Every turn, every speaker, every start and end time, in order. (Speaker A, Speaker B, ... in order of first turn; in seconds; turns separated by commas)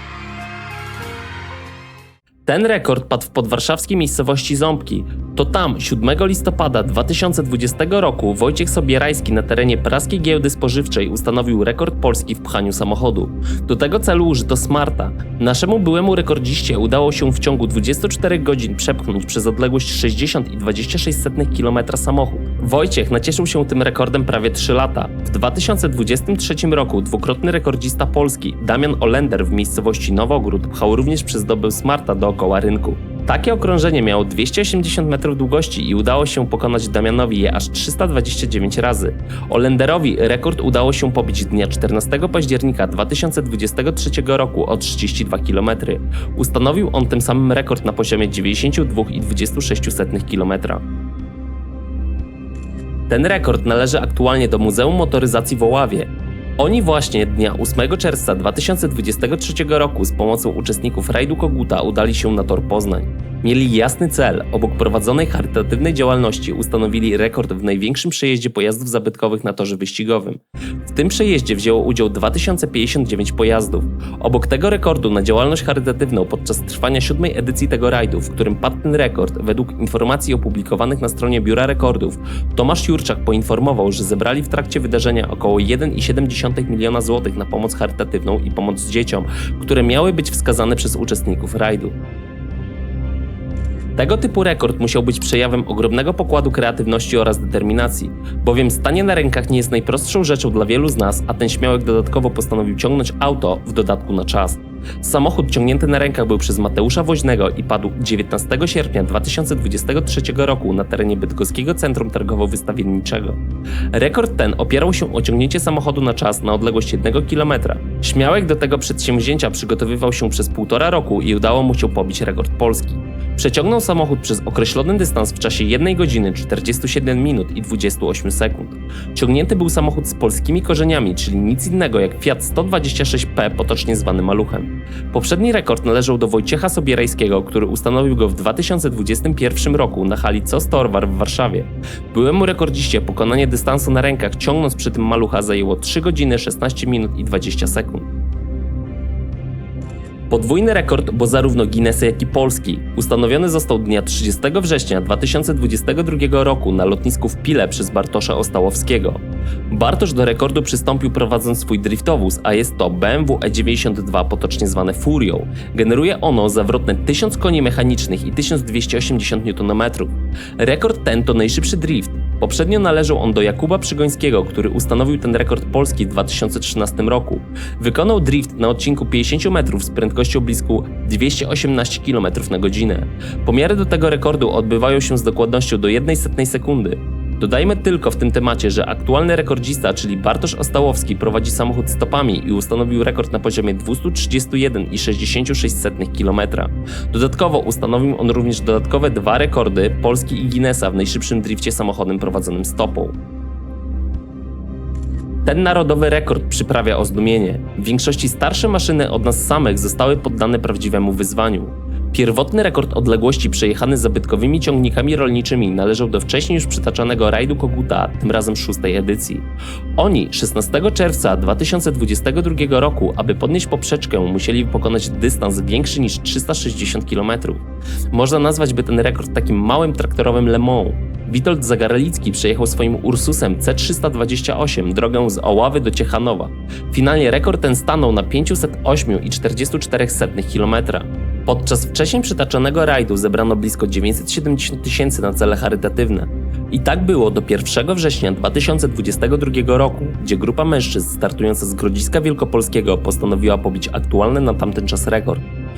Speaker A: 2.5-50.8, Speaker A: 53.1-92.0, Speaker A: 94.0-113.4, Speaker A: 113.9-148.1, Speaker A: 150.3-203.2, Speaker A: 205.4-219.5, Speaker A: 220.0-255.4